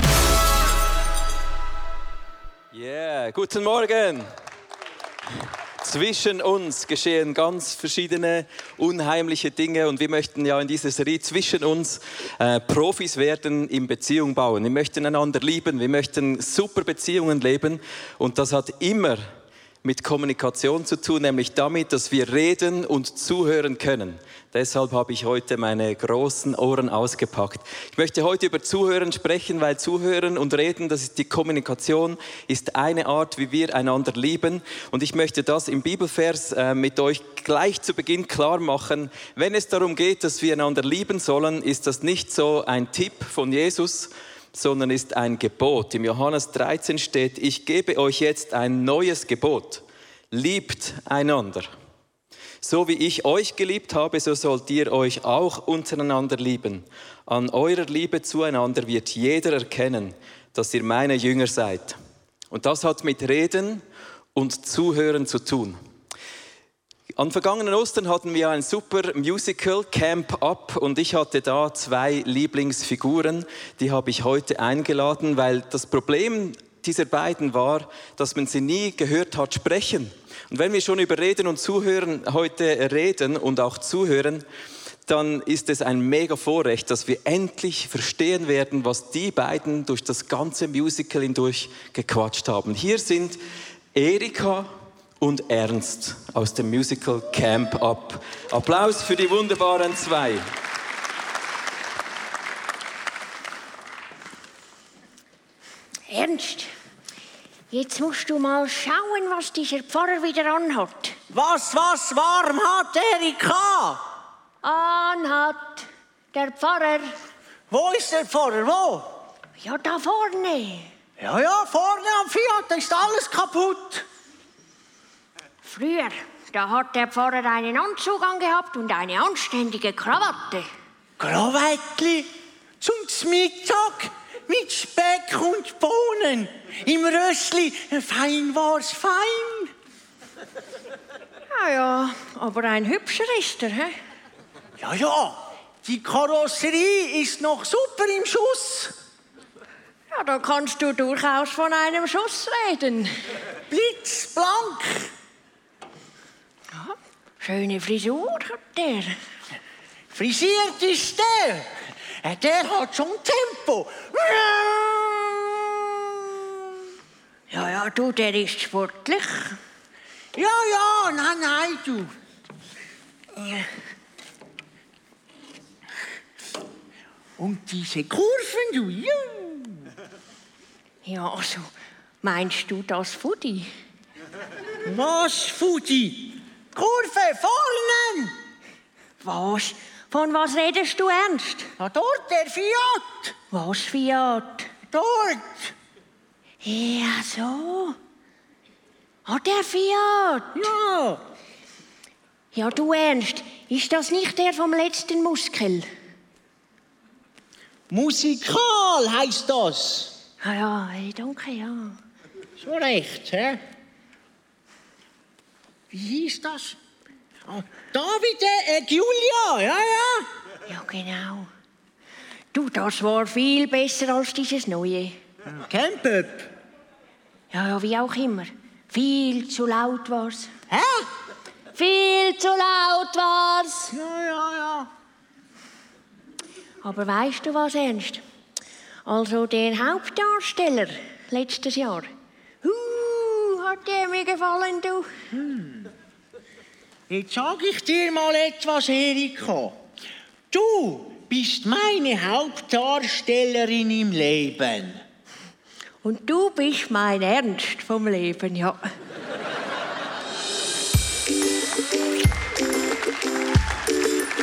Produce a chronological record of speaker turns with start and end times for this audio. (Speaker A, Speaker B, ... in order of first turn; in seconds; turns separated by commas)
Speaker A: 2.7-4.3, Speaker A: 5.8-19.2, Speaker A: 19.8-51.7, Speaker A: 52.6-62.0, Speaker A: 62.5-63.8, Speaker A: 64.3-65.8, Speaker A: 67.2-84.4, Speaker A: 85.1-93.4, Speaker A: 93.9-100.4, Speaker B: 106.1-106.7, Speaker B: 107.7-111.2, Speaker C: 111.3-114.0, Speaker B: 114.6-117.1, Speaker C: 117.7-119.2, Speaker B: 119.6-120.9, Speaker C: 121.2-124.0, Speaker B: 125.6-130.7, Speaker C: 131.2-132.3, Speaker C: 132.8-139.7, Speaker B: 141.5-143.9, Speaker C: 144.8-148.9, Speaker B: 150.1-153.1, Speaker C: 153.7-155.1, Speaker B: 156.8-159.2, Speaker C: 160.1-166.6, Speaker B: 167.5-169.6, Speaker C: 170.3-172.1, Speaker C: 177.4-179.8, Speaker B: 181.0-181.7, Speaker B: 182.2-183.7, Speaker C: 184.8-188.3, Speaker B: 189.2-191.7, Speaker C: 191.8-193.3, Speaker B: 193.5-194.7, Speaker C: 194.9-195.7, Speaker B: 196.6-198.0, Speaker B: 199.2-200.7, Speaker C: 200.5-201.2, Speaker B: 202.5-205.8, Speaker C: 207.9-210.1, Speaker B: 210.4-212.0, Speaker C: 212.6-213.6, Speaker C: 215.9-216.8, Speaker C: 217.4-220.3, Speaker B: 220.7-221.5, Speaker B: 222.5-225.2, Speaker C: 225.5-226.5, Speaker B: 227.5-230.5, Speaker C: 230.7-231.1, Speaker B: 231.7-233.9, Speaker C: 233.9-234.9, Speaker B: 236.8-238.2, Speaker B: 239.0-242.1, Speaker B: 242.6-245.1, Speaker C: 245.3-245.9, Speaker C: 247.1-249.8, Speaker C: 250.5-255.0, Speaker B: 256.0-258.9